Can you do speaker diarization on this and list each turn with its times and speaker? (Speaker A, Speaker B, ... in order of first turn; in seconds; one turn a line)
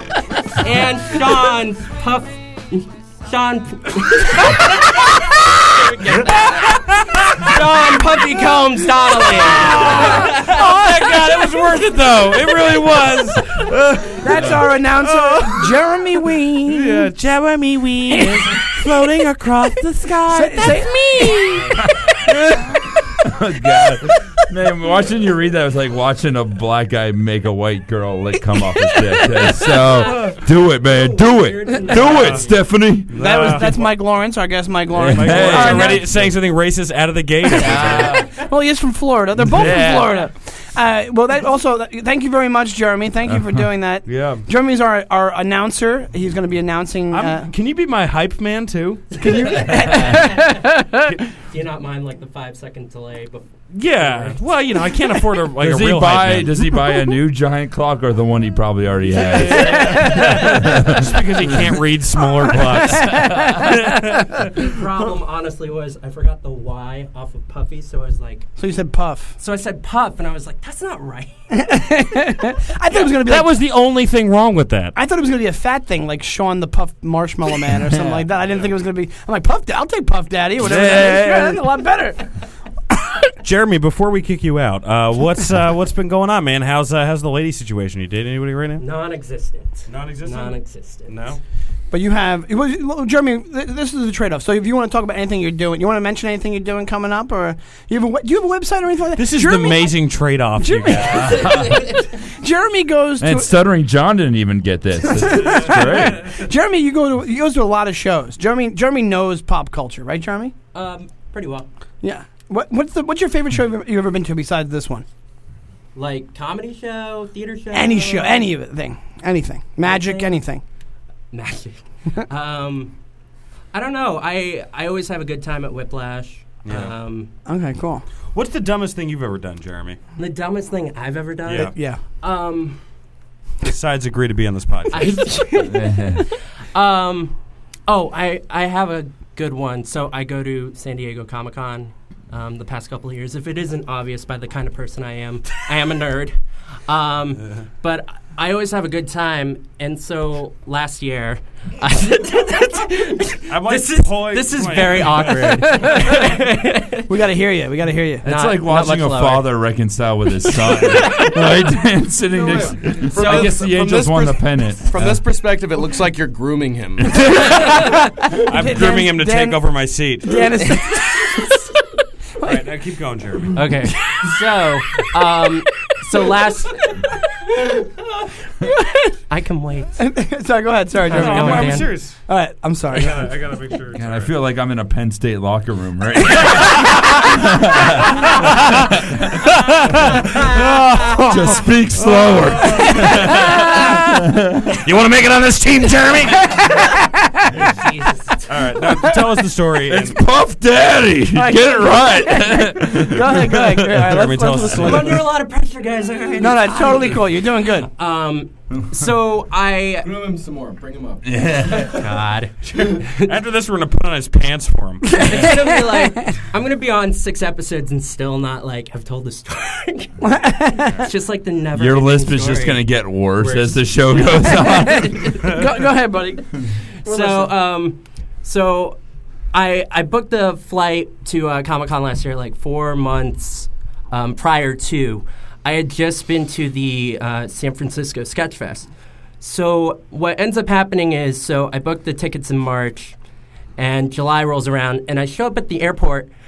Speaker A: 0.5-4.9
Speaker A: 6.0-6.4
Speaker B: 6.0-6.5
Speaker C: 6.5-7.6
Speaker A: 7.4-10.7
Speaker C: 9.2-22.8
Speaker D: 14.2-17.1
Speaker D: 18.1-18.7
Speaker D: 20.2-21.8
Speaker E: 21.9-33.7
Speaker A: 29.9-32.6
Speaker C: 33.1-33.9
Speaker D: 33.2-36.1
Speaker E: 34.9-36.3
Speaker C: 34.9-38.3
Speaker D: 37.5-47.5
Speaker E: 37.6-38.3
Speaker E: 39.4-40.2
Speaker E: 43.3-43.7
Speaker C: 44.1-44.5
Speaker C: 47.1-49.3
Speaker D: 49.2-51.1
Speaker A: 49.6-50.7
Speaker A: 51.4-54.4
Speaker C: 53.7-56.7
Speaker E: 55.6-61.8
Speaker C: 59.1-64.4
Speaker D: 59.6-60.2
Speaker D: 62.5-63.9
Speaker E: 63.1-63.7
Speaker A: 64.5-68.5
Speaker D: 68.6-69.4
Speaker A: 69.4-71.3
Speaker D: 71.5-73.5
Speaker C: 72.9-75.0
Speaker D: 75.0-82.3
Speaker E: 77.8-78.3
Speaker E: 80.6-81.6
Speaker C: 83.4-88.8
Speaker A: 88.8-91.3
Speaker C: 89.9-90.6
Speaker C: 91.1-91.4
Speaker D: 91.9-99.9
Speaker C: 99.2-101.5
Speaker D: 100.6-103.5
Speaker E: 101.1-102.0
Speaker E: 103.2-106.3
Speaker D: 105.1-110.5
Speaker A: 110.7-111.7
Speaker D: 112.0-115.1
Speaker A: 116.0-118.5
Speaker D: 117.7-120.6
Speaker A: 119.8-120.4
Speaker A: 121.3-123.0
Speaker A: 123.7-127.3
Speaker C: 126.7-126.9
Speaker D: 127.5-128.0
Speaker C: 128.3-130.0
Speaker A: 130.2-132.8
Speaker C: 131.5-131.7
Speaker D: 131.7-132.0
Speaker C: 133.6-135.2
Speaker A: 134.9-137.4
Speaker E: 135.6-136.3
Speaker A: 137.9-146.4
Speaker A: 146.9-157.1
Speaker C: 153.5-156.0
Speaker D: 155.6-156.3
Speaker D: 157.1-158.3
Speaker A: 158.2-159.6
Speaker E: 158.2-165.2
Speaker A: 160.9-161.3
Speaker B: 162.3-167.6
Speaker A: 163.2-163.6
Speaker C: 167.2-170.6
Speaker D: 167.6-169.7
Speaker E: 168.6-168.8
Speaker D: 170.2-171.6
Speaker D: 172.4-172.7
Speaker C: 172.4-173.6
Speaker A: 173.5-177.1
Speaker A: 179.3-180.0
Speaker D: 180.0-183.4
Speaker C: 181.0-182.2
Speaker A: 181.0-181.9
Speaker C: 182.9-184.3
Speaker E: 183.9-190.3
Speaker C: 188.2-196.9
Speaker E: 191.2-194.8
Speaker A: 197.6-198.4
Speaker C: 198.5-200.2
Speaker E: 199.8-204.2
Speaker D: 201.3-205.2
Speaker C: 203.9-205.2
Speaker A: 204.8-210.1
Speaker D: 206.4-207.9
Speaker B: 210.0-212.0
Speaker E: 211.2-212.2
Speaker A: 211.9-213.3
Speaker C: 213.2-215.5
Speaker D: 215.2-216.2
Speaker A: 215.2-222.9
Speaker D: 220.2-221.1
Speaker E: 221.7-225.6
Speaker A: 223.4-225.4
Speaker D: 224.8-227.5
Speaker A: 227.1-229.0
Speaker A: 229.5-238.9
Speaker A: 239.4-243.2
Speaker A: 243.8-246.3